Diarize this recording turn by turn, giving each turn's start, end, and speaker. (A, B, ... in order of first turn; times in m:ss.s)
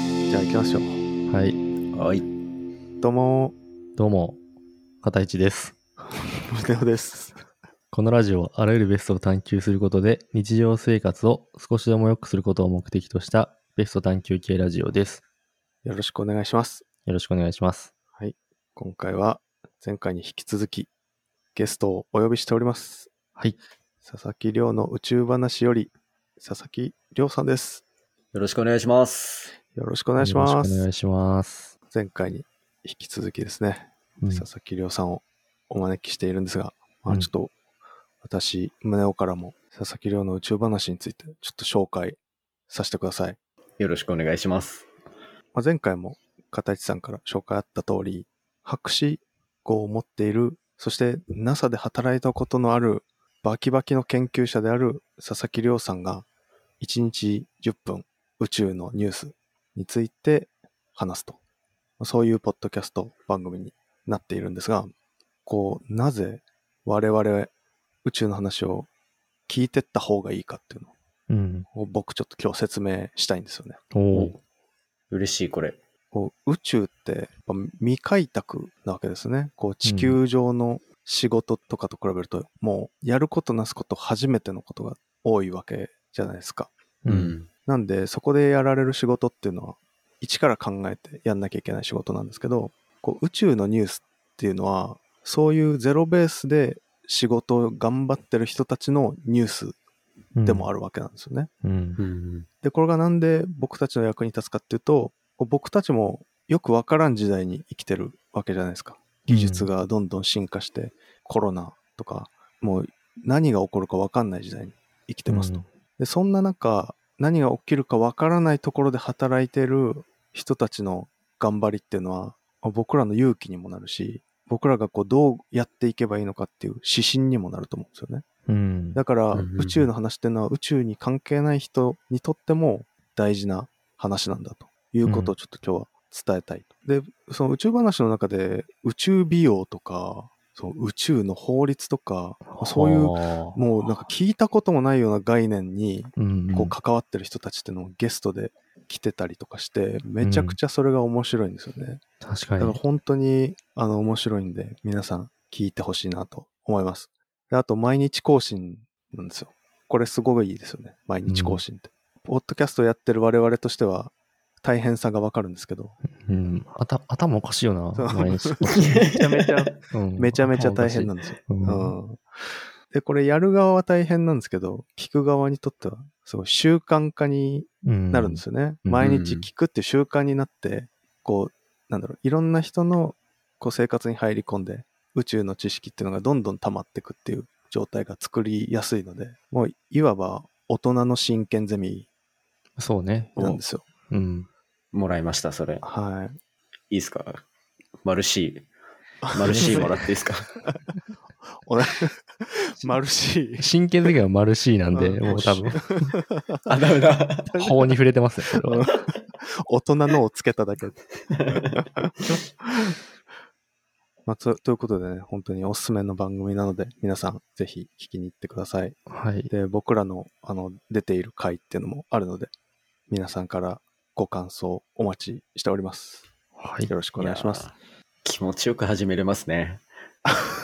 0:00.3-0:01.0 A
0:01.3-0:01.6 B
0:01.9-0:02.3 C
0:03.0-0:03.6 A
0:04.0-0:04.4 B
0:05.0-0:05.7 B
0:06.4-0:07.4 A
0:07.9-0:15.2 B
0:15.8-0:16.8 A
0:17.0-0:17.9 B
0:18.2-0:20.9 A
0:21.5-0:23.1 A
0:24.0-0:27.8 A
0:28.3-0:29.5 C
0:29.7-0:30.8 A
0:30.2-0:31.7 B
0:31.9-0:37.5 A
0:34.2-0:34.4 B
0:38.2-0:42.2 A
0:42.7-0:43.4 A
0:43.8-0:44.9 C
0:45.5-0:56.2 A
0:56.8-1:01.4 A
1:02.0-1:04.9 A
1:05.4-1:07.5 A
1:08.0-1:08.9 A
1:09.5-1:10.9 A
1:11.3-1:11.7 B
1:11.7-1:13.8 A
1:13.9-1:14.3 B
1:15.1-1:15.8 C
1:16.1-1:26.7 A
1:19.8-1:20.2 B
1:27.0-1:27.3 B
1:27.1-1:27.5 C
1:27.6-1:39.8 A
1:40.3-1:40.7 B
1:40.4-1:41.5 A
1:41.6-1:42.0 B
1:42.0-1:42.5 C
1:42.6-2:08.2 A
1:49.3-1:49.7 B
1:55.3-1:55.7 B
2:08.5-2:09.0 B
2:08.9-2:32.0 A
2:09.3-2:09.9 C
2:15.0-2:15.3 B
2:22.5-2:23.6 B
2:26.2-2:26.7 B
2:30.2-2:30.6 B
2:32.2-2:32.8 B
2:32.6-2:46.0 A
2:41.2-2:41.6 B
2:46.2-2:49.1 B
2:48.0-2:52.2 A
2:48.7-2:49.7 C
2:49.9-2:51.9 B
2:52.9-3:12.1 A
2:57.8-2:59.0 B
2:59.0-2:59.5 C
3:12.8-3:14.5 B
3:13.4-3:13.8 A
3:14.9-3:15.8 C
3:15.8-3:16.4 A
3:16.9-3:17.4 C
3:18.0-3:18.7 C
3:19.3-3:20.1 A
3:19.3-3:20.5 C
3:19.4-3:19.8 B
3:21.6-3:23.7 A
3:23.6-3:26.1 B
3:24.9-3:26.6 A
3:25.3-3:25.6 C
3:26.6-3:27.6 C
3:27.5-3:28.9 B
3:28.7-3:31.0 A
3:31.3-3:32.4 C
3:31.5-3:32.9 A
3:34.2-3:42.5 A
3:39.1-3:39.5 B
3:43.1-3:46.2 A
3:46.6-3:46.9 B
3:46.9-3:47.7 A
3:47.2-3:49.8 C